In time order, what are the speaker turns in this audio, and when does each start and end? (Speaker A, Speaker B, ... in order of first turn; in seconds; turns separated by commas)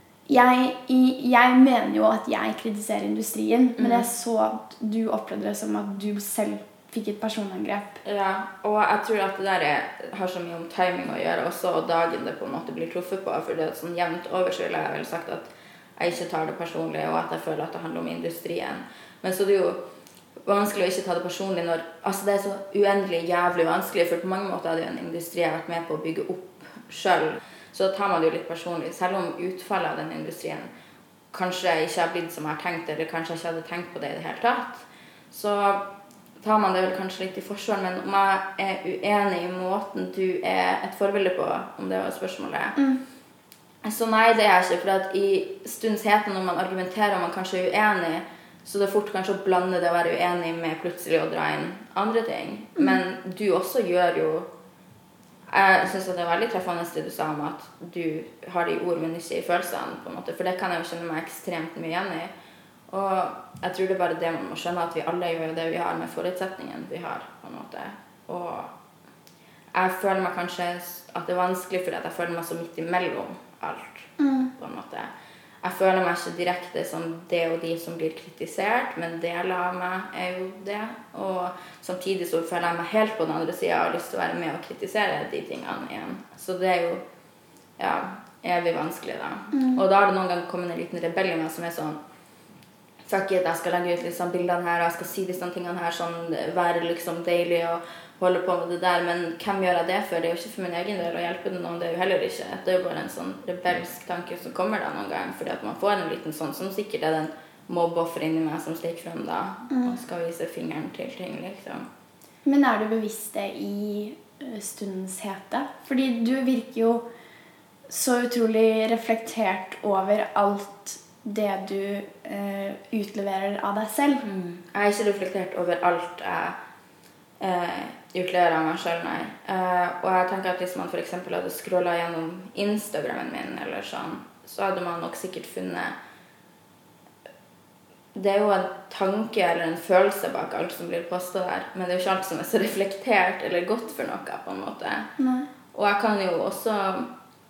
Speaker A: 0.3-8.0, Speaker B: 3.8-4.1, Speaker B: 8.0-19.8, Speaker B: 20.4-30.7, Speaker B: 31.3-42.8, Speaker B: 43.8-54.5, Speaker B: 55.5-62.3, Speaker B: 62.9-68.7, Speaker B: 69.7-75.1, Speaker A: 74.2-74.5, Speaker B: 75.6-87.0, Speaker B: 87.8-92.0, Speaker A: 89.5-89.8, Speaker B: 93.1-111.9, Speaker A: 109.7-110.0, Speaker A: 112.5-117.1, Speaker A: 117.9-124.2, Speaker B: 124.2-126.6, Speaker B: 127.4-136.0, Speaker B: 138.2-145.1, Speaker A: 145.2-145.5, Speaker B: 145.7-147.1